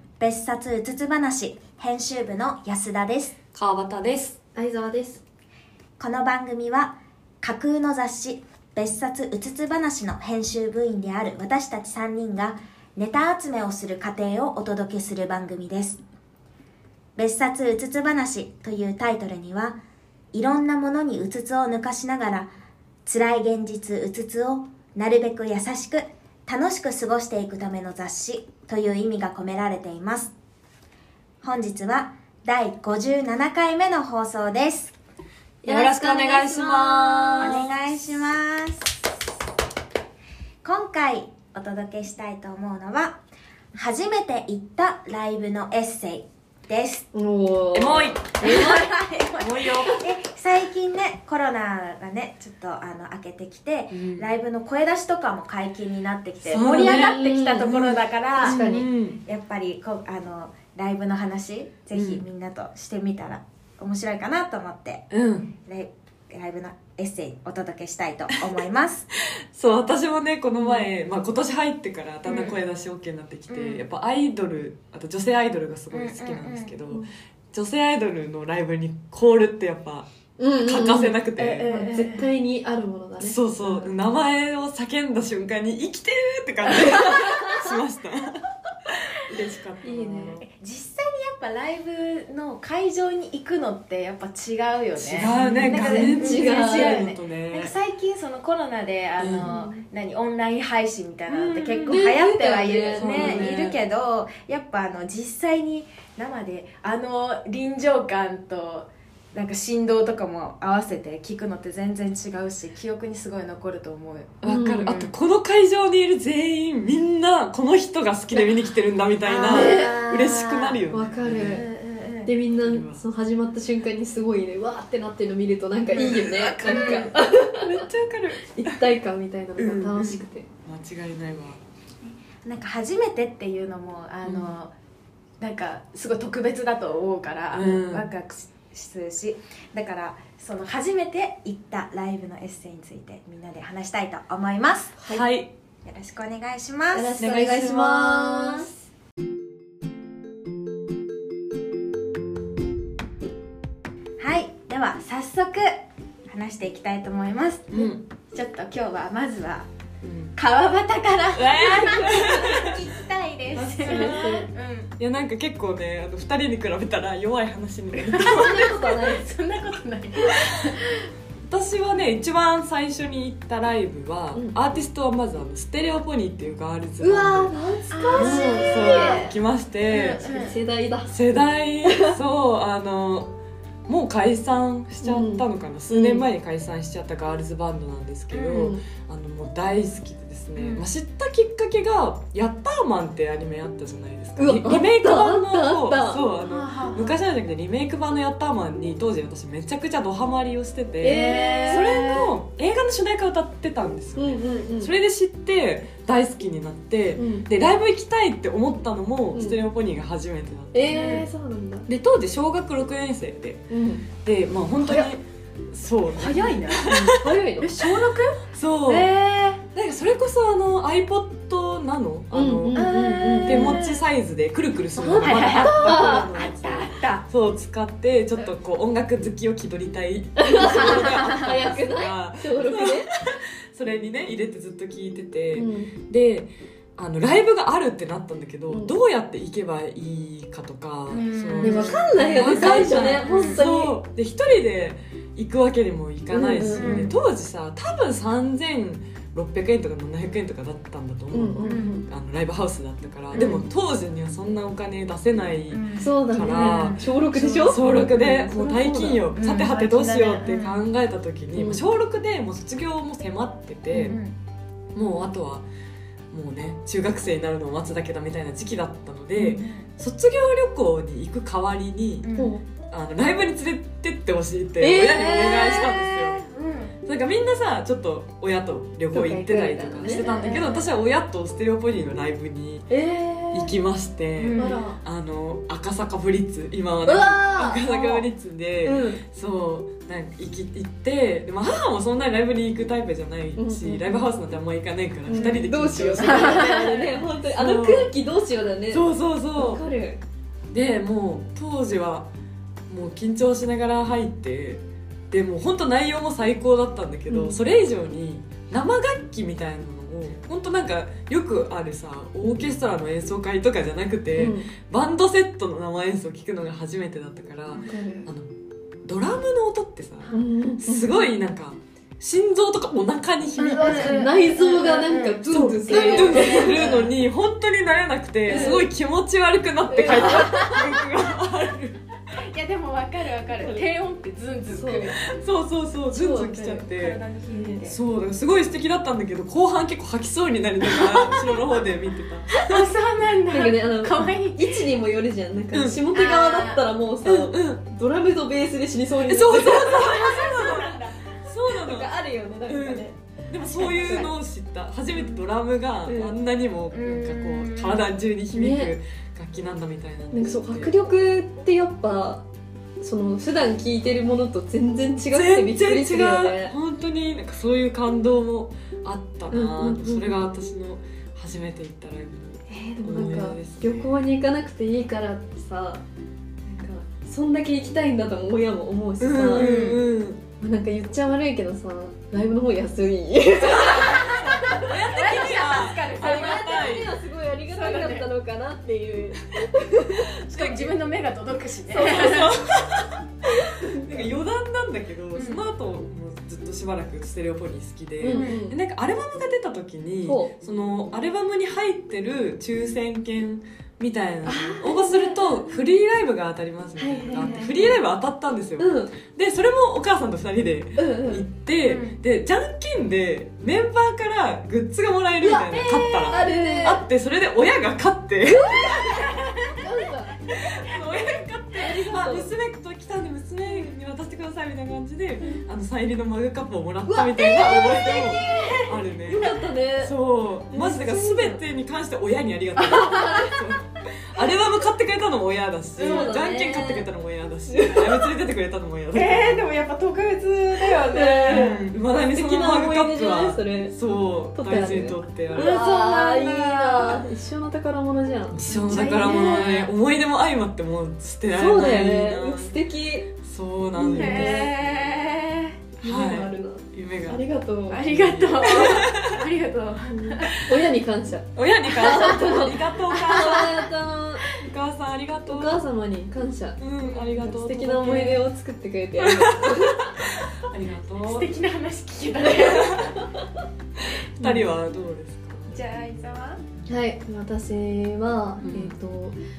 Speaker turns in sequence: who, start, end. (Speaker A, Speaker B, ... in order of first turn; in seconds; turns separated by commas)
Speaker A: 0.2-3.4, Speaker B: 3.5-4.4, Speaker C: 4.6-5.2, Speaker A: 6.0-16.0, Speaker A: 17.2-19.8, Speaker A: 20.3-22.5, Speaker A: 23.1-30.3, Speaker A: 31.4-34.9, Speaker C: 35.6-37.7, Speaker B: 35.6-37.7, Speaker A: 37.4-38.9, Speaker A: 40.6-43.2, Speaker A: 43.7-47.0, Speaker C: 47.1-48.8, Speaker B: 47.7-48.8, Speaker D: 48.4-49.9, Speaker A: 48.7-49.4, Speaker B: 49.4-50.0, Speaker A: 49.9-56.8, Speaker B: 53.9-54.3, Speaker B: 56.4-57.2, Speaker D: 56.5-58.6, Speaker C: 56.7-57.8, Speaker A: 57.9-58.7, Speaker B: 58.4-59.2, Speaker C: 58.4-58.9, Speaker A: 59.2-65.0, Speaker B: 61.9-62.2, Speaker B: 65.1-65.5, Speaker A: 65.7-69.1, Speaker B: 69.5-81.7, Speaker D: 72.3-72.6, Speaker D: 73.5-73.8, Speaker D: 76.0-76.7, Speaker C: 80.4-83.4, Speaker D: 81.4-82.3, Speaker B: 83.2-90.5, Speaker C: 86.7-87.7, Speaker D: 89.8-115.1, Speaker B: 95.0-97.7, Speaker C: 95.2-97.0, Speaker B: 99.2-99.5, Speaker B: 101.3-102.1, Speaker C: 101.9-103.5, Speaker A: 102.4-102.8, Speaker B: 103.0-103.8, Speaker A: 103.5-103.8, Speaker B: 114.4-121.7, Speaker C: 114.5-114.9, Speaker D: 119.3-120.2, Speaker A: 119.3-120.8, Speaker C: 119.5-120.0, Speaker C: 120.9-121.7, Speaker D: 121.3-122.3, Speaker C: 122.2-127.8, Speaker B: 122.6-123.0, Speaker B: 125.9-128.8, Speaker D: 126.7-127.1, Speaker C: 128.5-130.5, Speaker B: 129.6-131.6, Speaker D: 132.5-134.7, Speaker B: 134.2-134.6, Speaker D: 135.4-143.8, Speaker B: 137.5-138.1, Speaker A: 143.8-144.9, Speaker C: 145.0-145.2, Speaker B: 145.1-145.5, Speaker A: 145.8-147.2, Speaker C: 146.9-148.7, Speaker B: 147.2-148.7, Speaker A: 154.2-157.7, Speaker B: 157.7-158.0, Speaker D: 158.3-159.7, Speaker B: 160.0-160.3, Speaker D: 160.4-164.9, Speaker B: 161.4-162.7, Speaker A: 161.9-163.9, Speaker C: 163.6-164.5, Speaker B: 163.7-164.4, Speaker B: 165.0-168.7, Speaker D: 168.0-170.8, Speaker C: 168.3-169.3, Speaker B: 171.4-177.5, Speaker C: 177.0-179.2, Speaker D: 177.9-179.4, Speaker B: 178.1-180.2, Speaker D: 179.9-180.5, Speaker C: 180.2-181.2, Speaker B: 181.1-183.3, Speaker C: 181.9-182.2, Speaker B: 183.9-211.0, Speaker C: 185.0-186.3, Speaker C: 188.3-188.8, Speaker D: 190.6-190.9, Speaker C: 194.4-196.2, Speaker D: 196.4-197.2, Speaker C: 201.0-202.1, Speaker D: 201.1-202.3, Speaker C: 204.2-204.9, Speaker C: 207.2-207.5, Speaker C: 209.3-209.6, Speaker C: 210.7-211.9, Speaker D: 210.9-211.3, Speaker B: 211.9-217.3, Speaker C: 213.7-214.1, Speaker D: 216.1-219.6, Speaker C: 216.9-217.7, Speaker B: 218.5-219.1, Speaker B: 219.7-264.2, Speaker C: 222.3-223.8, Speaker D: 222.7-224.0, Speaker C: 224.9-226.3, Speaker D: 225.2-227.2, Speaker C: 230.4-233.1, Speaker D: 230.8-231.2, Speaker C: 235.5-235.9, Speaker C: 238.7-239.0, Speaker D: 241.1-243.6, Speaker C: 241.6-243.9, Speaker C: 246.3-247.1, Speaker D: 246.6-247.2, Speaker C: 251.3-252.1, Speaker D: 251.6-252.0, Speaker D: 253.3-253.6, Speaker C: 253.4-253.7, Speaker D: 255.7-257.1, Speaker C: 256.0-259.2, Speaker D: 259.3-260.8, Speaker C: 261.5-261.8, Speaker C: 263.9-264.2, Speaker D: 264.1-264.4, Speaker B: 264.9-265.7, Speaker B: 266.3-272.4, Speaker D: 269.4-269.9, Speaker D: 272.2-272.5, Speaker C: 272.4-272.6, Speaker B: 272.9-276.4, Speaker C: 274.8-275.9, Speaker D: 275.2-276.9, Speaker B: 277.0-282.9, Speaker C: 279.1-280.6, Speaker D: 280.1-280.9, Speaker C: 282.9-283.7, Speaker B: 283.5-296.7, Speaker D: 284.4-284.8, Speaker C: 284.6-285.0, Speaker C: 287.1-288.3, Speaker C: 288.8-289.2, Speaker C: 293.6-294.3, Speaker C: 295.3-300.2, Speaker D: 295.3-295.6, Speaker D: 296.2-297.1, Speaker B: 297.4-298.1, Speaker B: 298.9-299.8, Speaker B: 300.7-302.3, Speaker B: 302.9-318.5, Speaker C: 307.3-307.6, Speaker C: 314.4-314.7, Speaker C: 317.8-318.3, Speaker B: 319.0-324.3, Speaker C: 320.3-321.1, Speaker C: 323.6-326.9, Speaker D: 323.8-327.1, Speaker B: 325.5-332.0, Speaker C: 328.5-328.9, Speaker D: 328.5-328.8, Speaker C: 329.9-330.8, Speaker D: 330.0-331.0, Speaker D: 332.3-335.2, Speaker C: 334.7-335.1, Speaker B: 335.2-337.2, Speaker C: 336.1-336.6, Speaker D: 336.2-338.0, Speaker C: 337.5-337.8, Speaker B: 337.8-342.8, Speaker D: 341.0-341.6, Speaker D: 342.6-344.9, Speaker C: 343.5-350.2, Speaker B: 345.7-346.0, Speaker D: 346.1-346.9, Speaker B: 347.2-347.8, Speaker B: 349.2-352.1, Speaker D: 349.8-351.2, Speaker C: 351.8-354.3, Speaker B: 352.7-361.1, Speaker D: 353.8-354.3, Speaker D: 355.1-355.4, Speaker C: 356.1-356.4, Speaker D: 356.9-358.1, Speaker C: 358.5-358.9, Speaker C: 360.3-362.4, Speaker C: 363.0-366.8, Speaker B: 365.3-374.1, Speaker C: 369.5-370.3, Speaker C: 372.7-376.0, Speaker C: 376.7-379.7, Speaker B: 379.2-380.4, Speaker D: 379.5-380.0, Speaker C: 380.6-384.9, Speaker D: 383.6-387.0, Speaker B: 384.1-387.1, Speaker C: 386.1-390.8, Speaker D: 387.7-388.3, Speaker D: 390.4-392.6, Speaker B: 391.9-418.9, Speaker C: 393.7-394.1, Speaker D: 395.3-395.6, Speaker C: 398.2-398.8, Speaker D: 398.3-398.6, Speaker C: 400.3-400.5, Speaker C: 404.5-405.6, Speaker C: 407.0-407.9, Speaker D: 407.3-407.8, Speaker C: 408.8-409.1, Speaker C: 411.0-411.5, Speaker D: 411.9-412.2, Speaker D: 415.4-416.9, Speaker C: 416.3-417.0, Speaker C: 418.4-420.4, Speaker D: 418.8-419.7, Speaker B: 420.5-439.6, Speaker D: 420.7-421.4, Speaker C: 421.8-422.5, Speaker C: 427.1-430.1, Speaker D: 427.6-429.0, Speaker C: 430.7-431.6, Speaker C: 432.8-433.6, Speaker D: 432.9-433.4, Speaker D: 436.0-436.5, Speaker C: 436.0-437.1, Speaker C: 437.7-438.3, Speaker D: 439.1-441.8, Speaker C: 441.0-443.9, Speaker B: 441.5-445.7, Speaker C: 444.6-449.6, Speaker D: 445.5-447.2, Speaker B: 448.5-452.8, Speaker D: 448.7-449.9, Speaker C: 451.5-453.3, Speaker B: 453.4-454.7, Speaker C: 454.0-454.7, Speaker D: 454.1-455.8, Speaker C: 456.0-458.1, Speaker B: 456.0-457.4, Speaker D: 457.9-460.7, Speaker B: 458.0-459.4, Speaker C: 460.1-464.5, Speaker B: 461.6-463.9, Speaker D: 462.0-462.4, Speaker D: 463.1-463.8, Speaker B: 464.5-465.8, Speaker C: 465.5-470.1, Speaker B: 466.8-468.4, Speaker B: 469.2-471.5, Speaker D: 471.2-473.2, Speaker B: 472.6-473.1, Speaker B: 474.4-475.7, Speaker C: 474.4-474.7, Speaker D: 475.7-476.6, Speaker C: 476.9-479.4, Speaker B: 478.6-478.9